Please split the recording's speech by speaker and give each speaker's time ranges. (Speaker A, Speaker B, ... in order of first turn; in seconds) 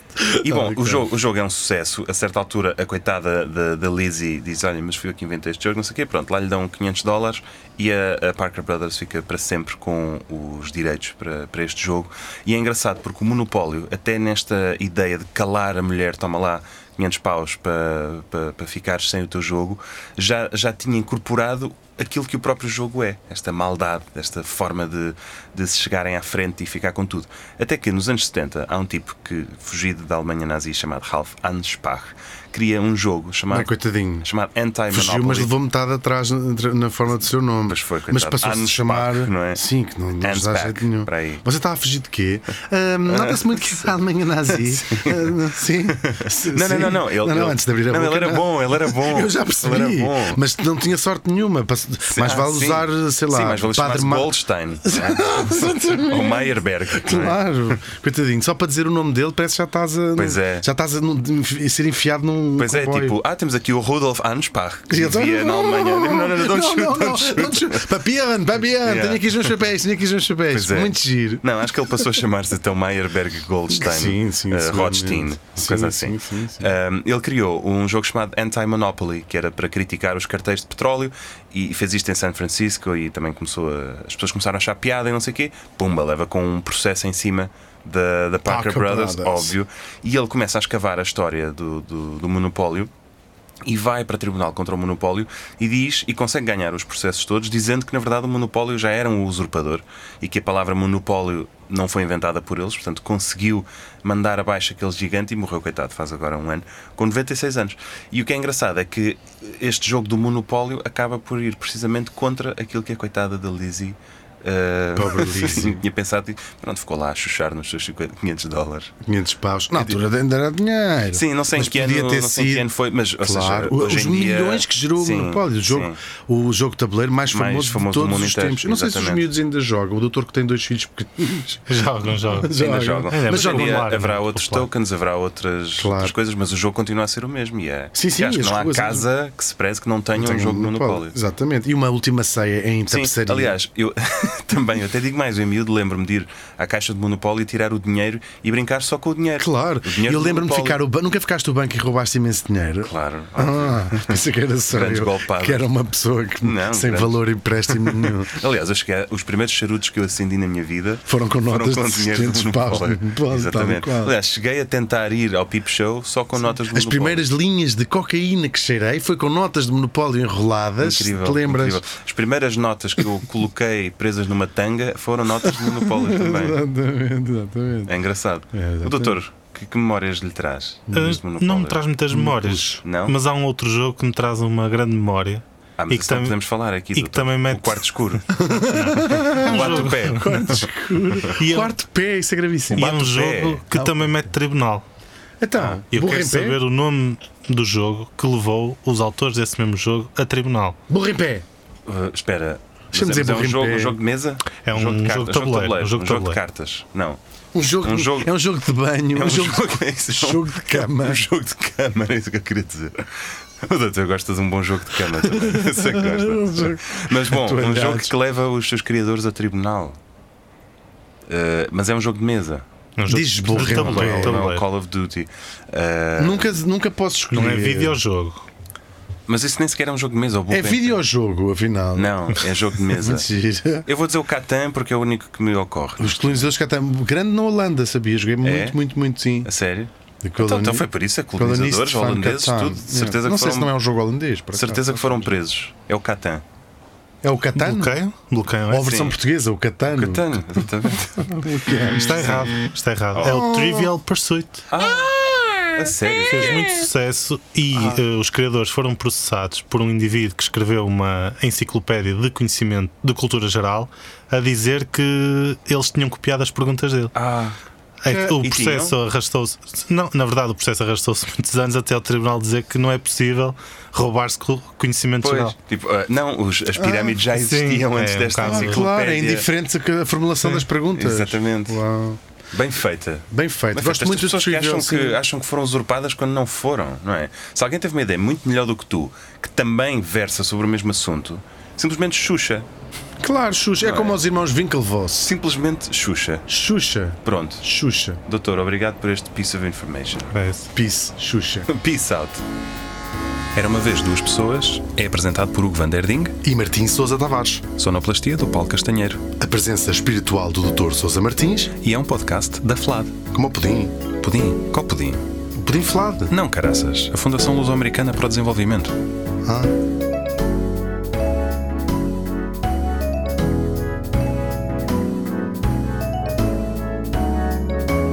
Speaker A: 0.2-1.1, 33.5-34.3, 34.9-63.2, 64.9-72.2, 73.7-76.7, 88.4-89.5, 115.0-115.8, 119.0-122.7, 123.2-133.8, 135.8-136.1, 137.9-139.1, 140.1-143.6, 149.4-158.4, 161.0-164.1, 166.6-171.8, 175.4-177.9, 178.5-179.2, 180.9-181.2, 182.1-182.8, 188.3-192.9, 193.7-194.3, 195.4-196.6, 200.9-201.4, 202.9-204.0, 207.5-211.3, 215.2-218.1, 223.1-224.4, 226.2-228.0, 230.5-233.9, 236.0-239.5, 240.2-245.3, 247.2-248.0, 248.7-250.6, 251.2-252.6, 253.2-253.9, 276.9-277.1, 278.4-282.2, 283.3-285.2, 293.2-295.3, 296.5-298.2, 300.7-301.7, 306.4-307.7, 309.4-311.7, 313.3-314.0, 315.6-316.3, 319.4-319.7
Speaker B: 0.3-35.5, 37.7-39.6, 40.2-41.4, 43.0-43.8, 44.5-45.3, 45.9-50.4, 52.1-57.4, 60.2-60.6, 62.6-67.9, 68.8-69.6, 70.5-92.9, 93.6-118.9, 119.7-120.0, 121.1-126.0, 127.3-129.3, 132.4-141.2, 142.9-150.8, 152.8-155.7, 156.4-167.3, 170.8-176.6, 177.9-181.8, 182.8-183.2, 185.8-191.3, 192.7-193.6, 201.8-207.2, 207.8-208.3, 209.1-220.0, 221.3-222.7, 223.5-226.5, 229.3-231.0, 231.9-233.3, 233.8-236.4, 238.4-238.8, 239.4-243.7, 244.5-246.4, 248.8-249.2, 249.9-251.5, 253.1-253.5, 254.7-255.2, 255.7-256.7, 267.1-267.6, 268.1-268.9, 275.2-279.5, 280.9-281.8, 282.5-292.7, 293.8-294.2, 295.2-296.5, 297.2-297.6, 298.2-300.3, 301.7-302.4, 303.5-306.4, 307.8-309.2, 311.8-313.2, 314.2-315.2, 316.3-319.0
Speaker C: 131.7-134.7, 180.9-186.4, 186.9-188.2, 188.7-190.5, 191.1-191.7, 192.7-194.8, 195.9-200.8, 204.6-206.4, 223.0-224.6, 227.3-228.4, 247.6-249.0, 251.9-254.7, 256.2-267.1, 268.0-275.5, 277.2-278.9, 300.3-300.7